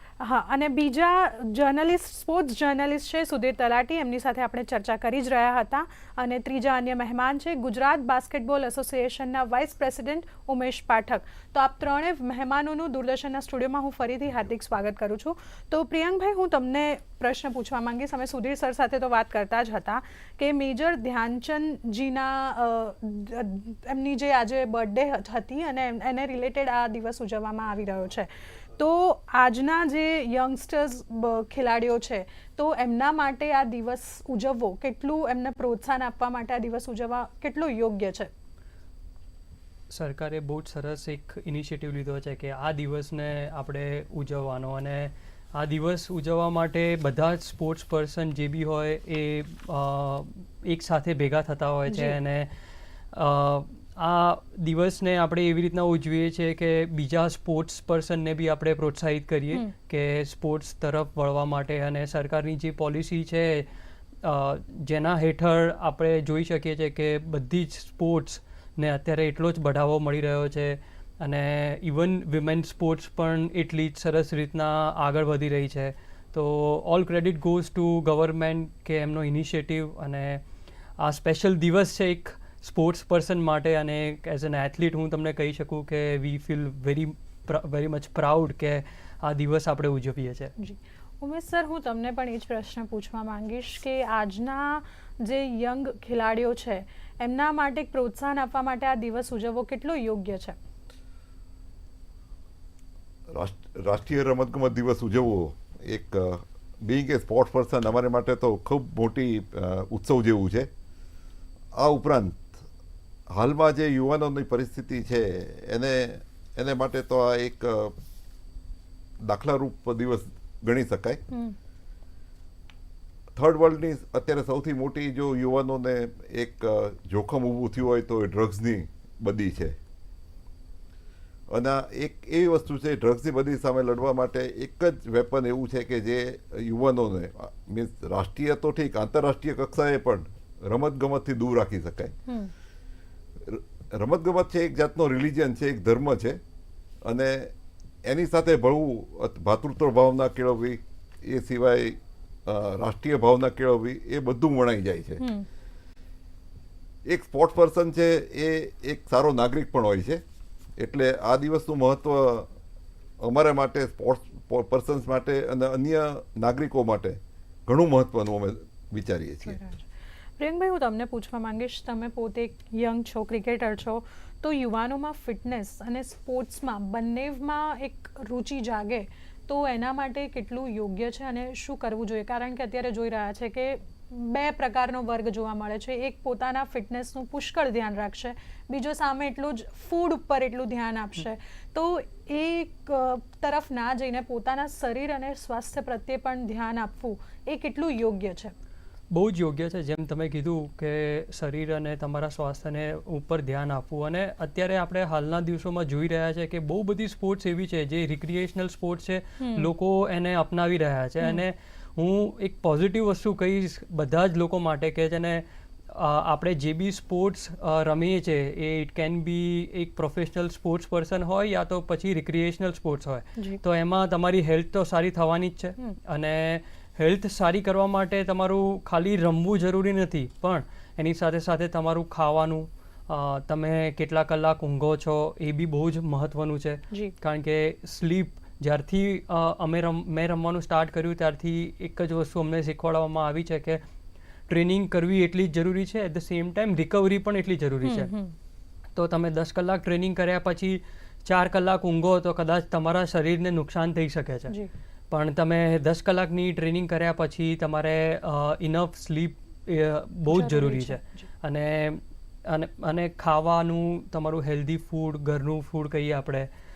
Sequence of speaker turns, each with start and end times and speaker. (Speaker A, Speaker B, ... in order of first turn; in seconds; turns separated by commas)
Speaker A: 0.2-38.3, Speaker B: 39.9-52.5, Speaker A: 51.9-52.2, Speaker B: 53.1-63.7, Speaker B: 64.2-80.4, Speaker B: 81.0-90.5, Speaker A: 90.6-100.6, Speaker C: 103.3-110.7, Speaker C: 111.7-112.5, Speaker C: 113.3-117.9, Speaker C: 119.2-121.2, Speaker A: 121.3-121.5, Speaker C: 123.3-129.8, Speaker C: 131.5-142.1, Speaker A: 142.3-142.5, Speaker C: 143.4-146.4, Speaker C: 147.0-147.5, Speaker C: 148.0-155.2, Speaker A: 155.2-155.4, Speaker C: 157.1-160.2, Speaker C: 160.8-162.5, Speaker C: 163.2-169.6, Speaker A: 169.4-169.9, Speaker A: 170.4-198.5, Speaker B: 199.1-243.8, Speaker A: 209.4-209.7, Speaker B: 244.5-248.1, Speaker A: 247.8-248.3, Speaker B: 248.9-254.6, Speaker B: 255.1-266.5, Speaker A: 260.3-261.3